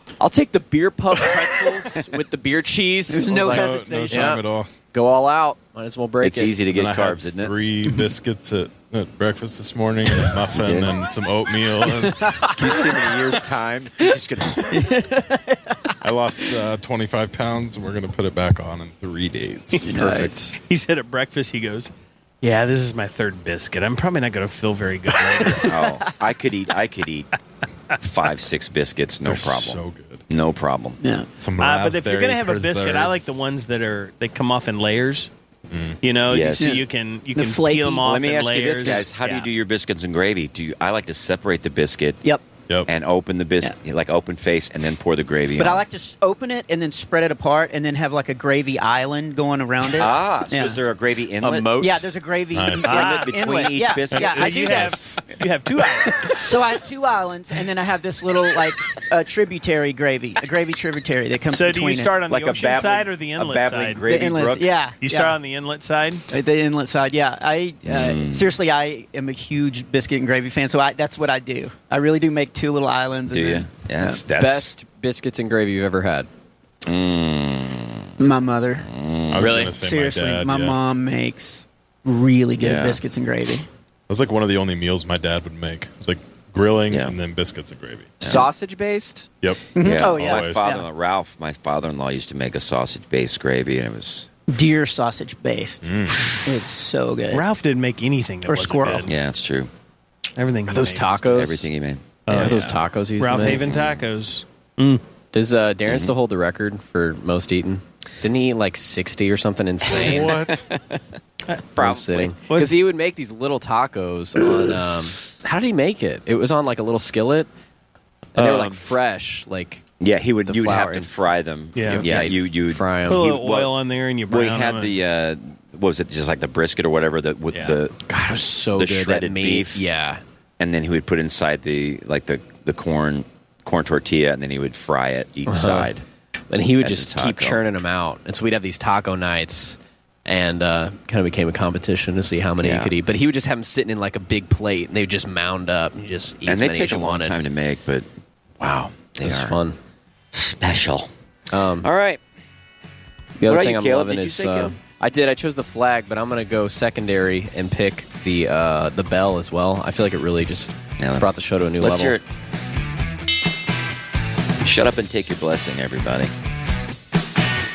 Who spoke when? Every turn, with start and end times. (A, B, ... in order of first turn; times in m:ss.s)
0:00.2-0:06.7 A
0:03.1-0:04.4 B
0:03.4-0:04.7 C
0:06.2-0:07.5 D
0:06.7-0:12.3 C
0:10.5-0:10.9 D
0:12.0-0:13.0 B
0:12.5-0:14.9 D
0:14.7-0:15.9 B
0:16.0-0:20.3 C
0:19.9-0:20.6 A
0:20.6-0:21.9 E
0:22.4-0:25.8 E
0:25.6-0:27.3 D
0:28.0-0:31.0 D
0:29.2-0:30.2 C
0:31.0-0:31.3 B
0:31.4-0:33.3 C
0:31.6-0:35.3 E
0:35.7-0:36.0 C
0:36.0-0:39.5 E
0:36.3-0:36.8 D
0:36.6-0:38.1 B
0:38.0-0:42.2 D
0:42.8-0:45.8 D
0:45.6-0:50.8 B
0:50.0-0:51.7 D
0:51.4-0:52.0 A
0:51.7-0:55.0 B
0:52.5-0:53.0 C
0:52.8-0:53.3 E
0:52.8-0:54.9 D
0:54.1-0:55.2 C
0:54.2-0:56.4 E
0:56.3-1:02.2 B
1:01.5-1:04.1 E
1:02.3-1:04.7 D
1:04.0-1:05.4 B
1:05.0-1:06.2 E
1:06.3-1:14.2 B
1:07.8-1:08.5 D
1:13.3-1:14.8 D
1:14.3-1:16.3 A
1:16.8-1:18.1 D
1:18.2-1:18.9 B
1:18.8-1:19.6 D
1:19.3-1:20.8 C
1:19.4-1:19.8 A
1:19.7-1:23.6 B
1:22.6-1:23.0 D
1:24.1-1:28.2 C
1:26.9-1:27.1 D
1:28.2-1:29.3 A
1:28.2-1:28.5 D
1:29.4-1:30.6 C
1:29.7-1:30.8 B
1:29.8-1:34.3 D
1:34.5-1:37.4 B
1:35.8-1:36.5 C
1:37.3-1:39.1 E
1:38.4-1:39.1 B
1:39.0-1:39.7 D
1:40.4-1:41.4 E
1:40.7-1:41.7 A
1:41.3-1:42.5 D
1:42.3-1:45.0 E
1:42.3-1:43.7 A
1:43.5-1:44.1 D
1:45.3-1:50.5 A
1:45.9-1:46.1 D
1:50.0-1:50.7 C
1:50.3-1:51.0 D
1:51.7-1:57.5 A
1:51.8-1:52.3 D
1:52.4-1:52.8 E
1:58.3-1:59.8 A
1:58.4-1:58.8 D
2:00.0-2:03.7 D
2:00.4-2:01.1 A
2:01.8-2:02.0 E
2:01.8-2:03.2 A
2:03.0-2:05.0 E
2:04.3-2:08.0 D
2:07.5-2:07.8 E
2:08.1-2:10.2 A
2:08.7-2:09.8 D
2:10.6-2:16.0 D
2:15.5-2:15.9 A
2:16.5-2:27.3 A
2:16.8-2:17.6 D
2:22.6-2:22.9 D
2:26.4-2:28.0 D
2:28.6-2:29.6 D
2:29.2-2:29.8 A
2:30.3-2:31.1 D
2:31.5-2:31.9 A
2:31.8-2:32.2 D
2:33.4-2:42.2 A
2:33.4-2:34.8 D
2:41.0-2:42.2 D
2:44.6-2:46.3 D